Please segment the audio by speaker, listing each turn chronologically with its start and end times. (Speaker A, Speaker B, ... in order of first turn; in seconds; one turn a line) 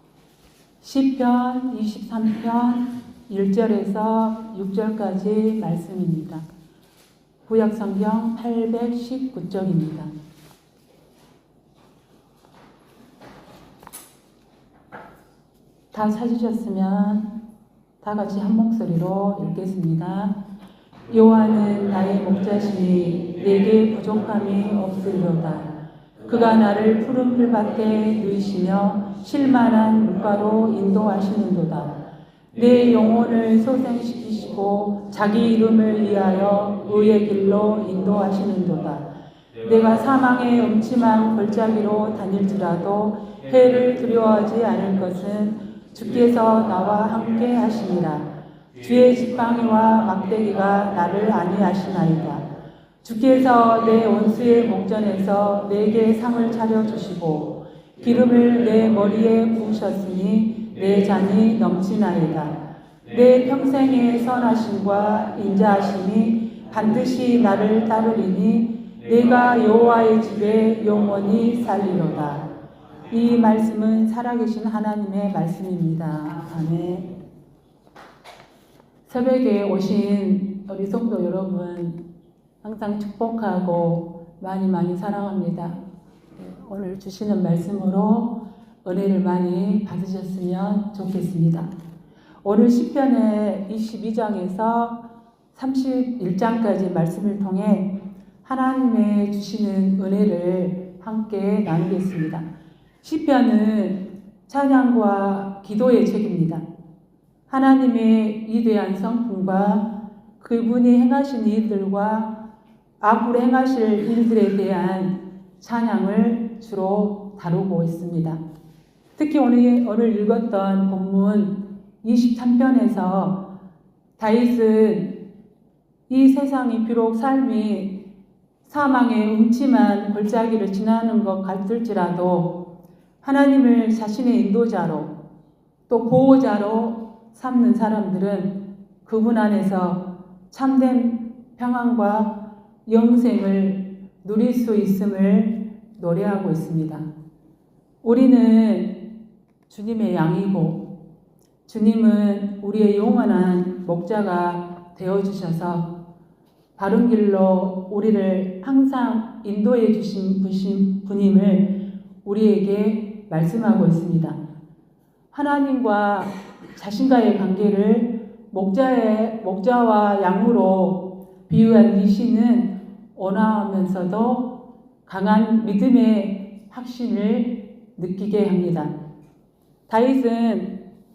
Speaker A: 0.8-6.4
Speaker A: 7.5-10.1
Speaker A: 15.9-17.3
Speaker A: 18.0-20.4
Speaker A: 21.1-25.7
Speaker A: 26.2-32.0
Speaker A: 32.5-39.1
Speaker A: 39.6-48.3
Speaker A: 48.8-52.5
Speaker A: 53.0-72.5
Speaker A: 73.1-77.1
Speaker A: 79.1-82.0
Speaker A: 82.6-85.8
Speaker A: 86.4-91.7
Speaker A: 92.4-97.9
Speaker A: 98.4-102.5
Speaker A: 103.0-106.6
Speaker A: 107.5-112.4
Speaker A: 113.0-118.4
Speaker A: 119.2-123.4
Speaker A: 124.2-125.1
Speaker A: 126.1-128.0
Speaker A: 128.7-132.6
Speaker A: 133.2-135.1
Speaker A: 135.9-142.3
Speaker A: 142.9-147.1
Speaker A: 148.0-148.9
Speaker A: 149.7-150.9
Speaker A: 151.7-155.9
Speaker A: 156.8-161.7
Speaker A: 162.2-164.4
Speaker A: 165.3-174.5
Speaker A: 175.1-178.9
Speaker A: 179.9-180.7